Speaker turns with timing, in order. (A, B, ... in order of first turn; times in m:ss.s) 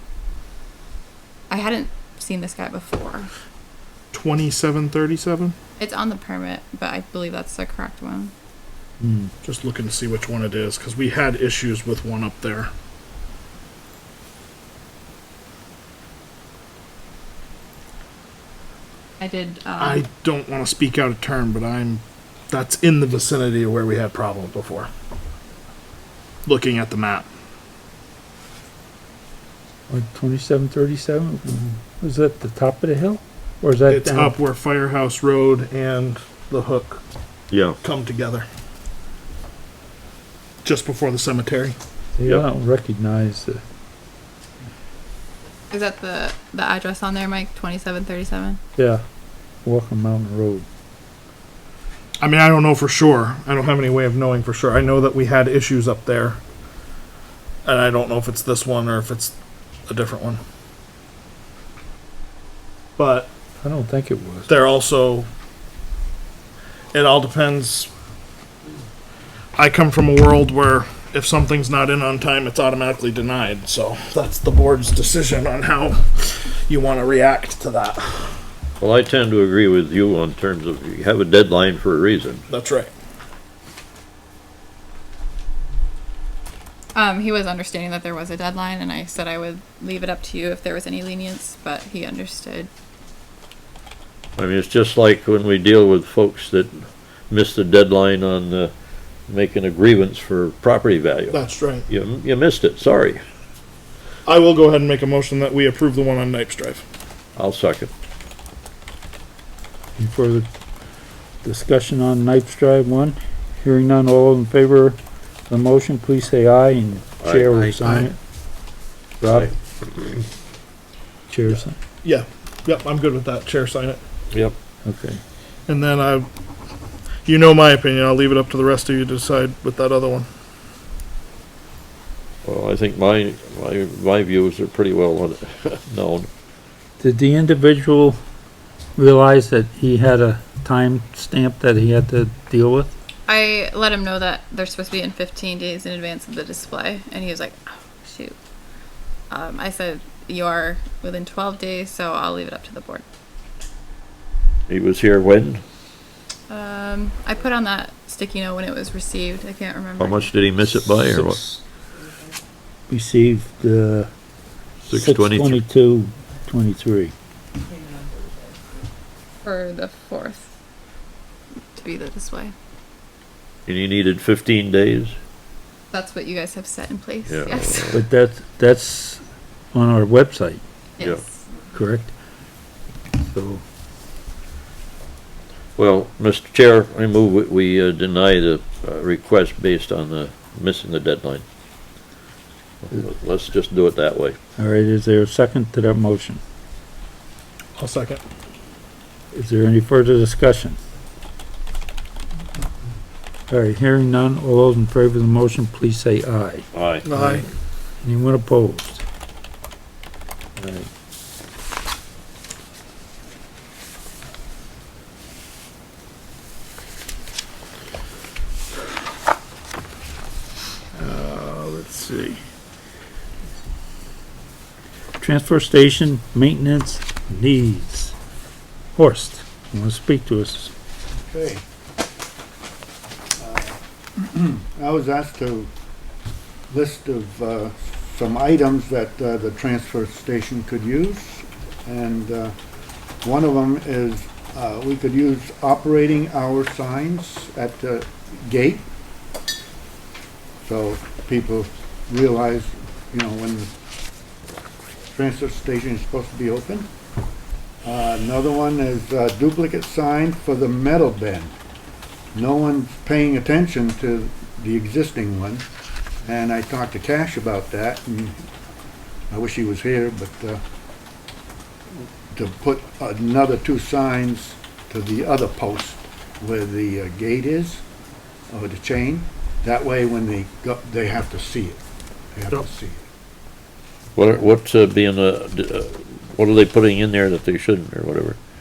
0:01.5-0:03.3 A
0:04.1-0:05.6 B
0:05.8-0:08.3 A
0:09.0-0:09.3 C
0:09.4-0:12.7 B
0:19.2-0:20.0 A
0:19.8-0:24.9 B
0:26.4-0:27.3 B
0:29.9-0:34.3 C
0:33.9-0:37.0 B
0:37.5-0:37.8 D
0:37.8-0:38.5 B
0:40.6-0:41.8 B
0:42.2-0:43.6 C
0:45.7-0:48.6 A
0:48.8-0:49.0 C
0:49.6-0:50.7 C
0:52.2-0:56.4 B
0:57.6-0:59.4 B
0:59.9-1:00.4 B
1:03.0-1:03.3 B
1:03.6-1:04.5 C
1:04.5-1:05.3 B
1:06.9-1:07.9 B
1:09.6-1:18.4 B
1:18.8-1:22.4 D
1:22.5-1:22.9 B
1:26.9-1:32.7 A
1:34.4-1:38.7 D
1:39.3-1:43.2 D
1:41.3-1:41.9 B
1:44.3-1:46.8 B
1:47.4-1:47.9 D
1:50.0-1:50.5 C
1:51.4-1:55.0 C
1:55.5-1:58.2 C
1:57.2-1:58.1 D
1:59.2-1:59.5 C
1:59.3-1:59.5 D
2:01.3-2:01.8 C
2:02.0-2:04.0 B
2:04.8-2:05.2 C
2:05.7-2:06.3 B
2:07.2-2:10.3 B
2:12.4-2:16.3 D
2:17.0-2:18.2 C
2:19.0-2:22.9 C
2:23.3-2:28.4 A
2:29.3-2:33.0 A
2:34.7-2:35.6 D
2:36.5-2:40.3 A
2:40.0-2:41.4 D
2:42.9-2:44.1 C
2:44.8-2:45.6 D
2:44.9-2:47.1 C
2:49.4-2:50.5 A
2:51.8-2:52.5 A
2:53.7-2:55.2 D
2:55.9-2:58.0 A
2:57.3-2:58.0 D
2:57.9-2:59.2 C
2:59.7-3:00.6 C
3:01.0-3:01.4 A
3:01.7-3:02.1 C
3:03.2-3:03.6 C
3:05.8-3:11.4 D
3:12.8-3:14.4 D
3:14.6-3:16.4 C
3:17.8-3:18.2 B
3:19.3-3:20.8 C
3:23.5-3:26.7 C
3:26.7-3:27.1 D
3:27.0-3:27.5 B
3:28.0-3:29.0 C
3:30.6-3:30.9 C
3:41.1-3:42.4 B
3:45.2-3:48.1 C
3:49.0-3:50.7 C
3:51.2-3:51.6 E
3:53.4-3:55.7 E
3:56.7-4:02.5 E
4:03.2-4:08.9 E
4:10.6-4:13.7 E
4:15.1-4:16.9 E
4:17.8-4:21.6 E
4:22.3-4:25.7 E
4:26.2-4:28.4 E
4:29.3-4:30.6 E
4:32.0-4:37.8 E
4:38.5-4:41.8 E
4:42.3-4:43.1 E
4:44.2-4:48.4 D